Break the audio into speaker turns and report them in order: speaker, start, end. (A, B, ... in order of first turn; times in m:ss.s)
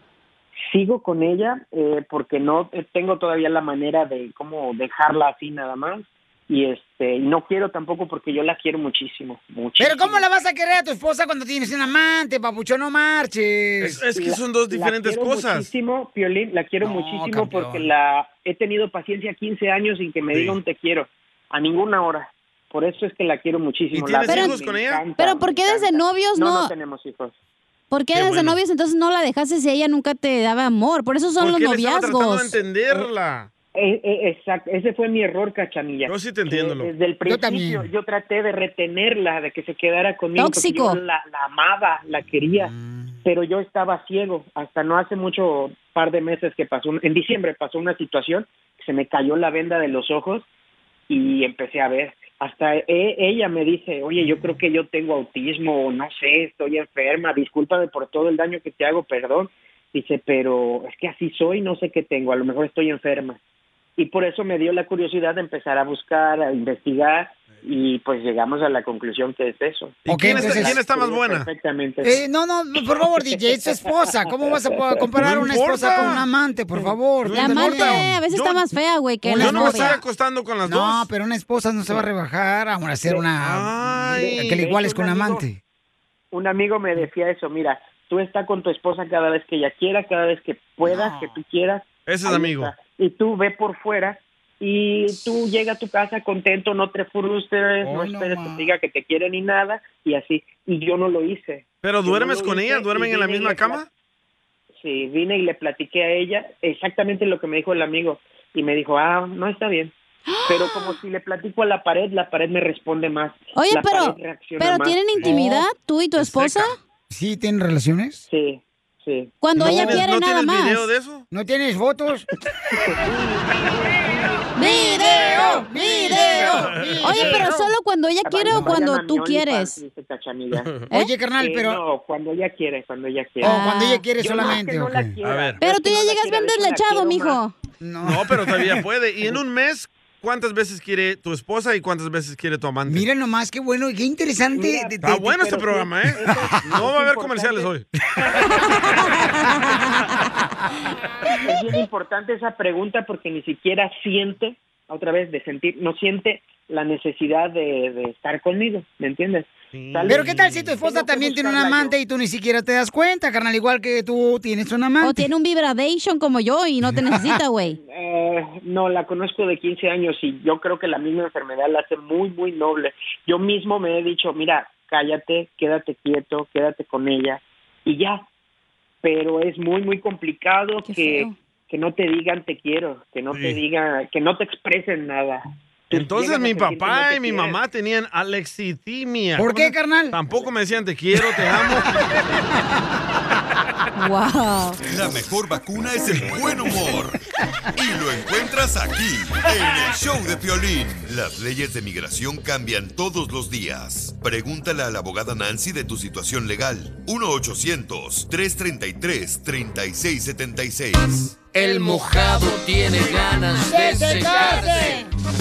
0:00.7-0:10.2 A
0:09.8-0:14.1 B
0:13.8-0:15.7 C
0:14.2-0:27.3 A
0:16.8-0:17.9 B
0:20.3-0:20.6 C
0:23.9-0:25.0 C
0:24.3-0:24.6 D
0:25.2-0:26.7 D
0:27.9-0:32.6 D
0:28.1-0:28.6 C
0:31.4-0:33.5 C
0:33.8-0:42.7 A
0:36.1-0:36.9 C
0:37.3-0:37.9 B
0:40.4-0:41.0 D
0:42.8-0:43.1 B
0:43.2-0:50.5 A
0:51.1-1:03.4 A
1:04.0-1:12.2 A
1:10.0-1:11.5 C
1:10.1-1:10.8 B
1:12.0-1:18.1 B
1:14.6-1:15.4 A
1:15.2-1:16.2 C
1:17.2-1:18.7 C
1:17.3-1:20.0 D
1:19.2-1:20.0 B
1:19.4-1:21.1 C
1:20.7-1:25.6 B
1:23.4-1:24.6 C
1:24.1-1:25.4 A
1:26.3-1:43.8 A
1:30.9-1:31.4 B
1:32.1-1:32.8 C
1:37.8-1:38.7 B
1:41.8-1:43.8 C
1:44.8-1:49.9 A
1:50.3-1:51.0 D
1:50.4-1:55.1 A
1:53.5-1:56.8 D
1:55.2-1:55.7 B
1:56.2-1:56.7 C
1:57.1-1:58.2 B
1:58.3-1:59.3 A
1:59.4-2:00.9 D
1:59.6-2:01.3 C
1:59.6-2:00.0 B
2:01.3-2:02.3 B
2:02.7-2:04.4 A
2:04.6-2:09.8 D
2:04.6-2:07.5 B
2:05.3-2:05.7 A
2:05.5-2:07.6 C
2:08.2-2:10.8 A
2:10.9-2:11.8 B
2:11.4-2:13.6 A
2:13.4-2:15.1 B
2:13.4-2:14.0 D
2:14.2-2:17.4 A
2:15.2-2:15.6 C
2:15.6-2:17.5 D
2:17.8-2:18.8 B
2:18.0-2:23.1 C
2:22.9-2:25.2 B
2:24.5-2:27.7 A
2:25.0-2:27.9 C
2:26.3-2:26.9 B
2:28.6-2:30.0 D
2:31.4-2:42.0 A
2:39.7-2:40.8 C
2:40.1-2:45.3 B
2:45.0-2:47.8 D
2:47.7-2:58.3 A
2:59.0-3:07.6 A
3:00.8-3:01.4 D
3:03.3-3:03.6 C
3:05.9-3:12.1 C
3:09.4-3:10.2 B
3:14.0-3:14.8 D
3:14.9-3:17.2 E
3:17.8-3:31.4 E
3:31.6-3:32.6 F
3:33.4-3:34.3 F
3:33.5-3:35.0 B
3:34.4-3:34.9 C